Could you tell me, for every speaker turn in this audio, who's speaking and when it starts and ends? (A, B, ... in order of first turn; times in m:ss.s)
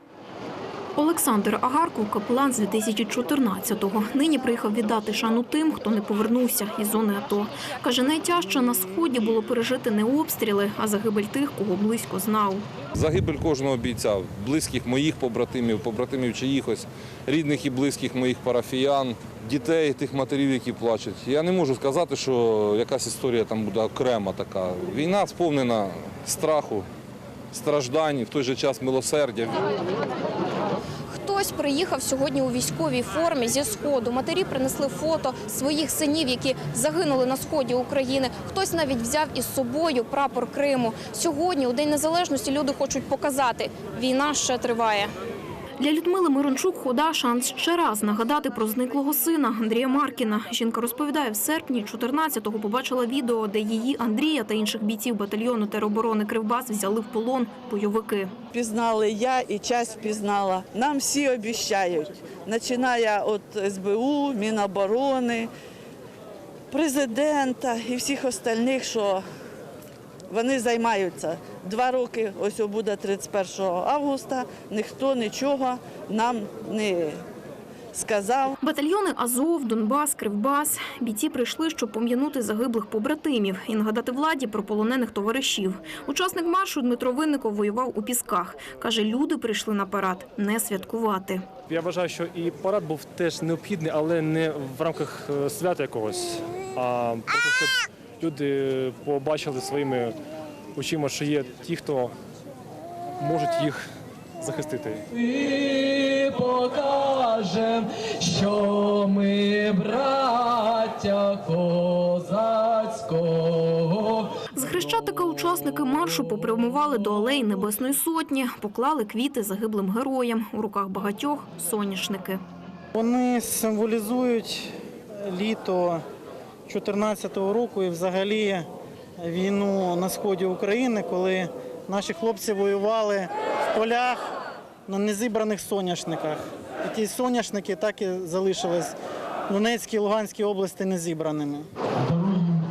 0:01.0-0:12.6 A
0:12.9-0:26.9 B
0:27.5-0:29.7 B
0:31.1-0:45.1 C
0:45.8-0:58.3 A
0:58.5-1:05.5 D
1:06.7-1:09.2 D
1:10.3-1:17.2 D
1:17.9-1:18.5 D
1:18.6-1:31.5 A
1:31.7-1:40.2 E
1:40.8-1:42.1 E
1:43.2-1:43.8 E
1:44.4-1:45.0 E
1:45.3-1:54.3 F
1:54.5-2:02.4 A
2:02.9-2:06.0 G
2:06.7-2:08.7 G
2:09.2-2:14.2 G
2:14.9-2:19.0 G
2:19.5-2:21.7 G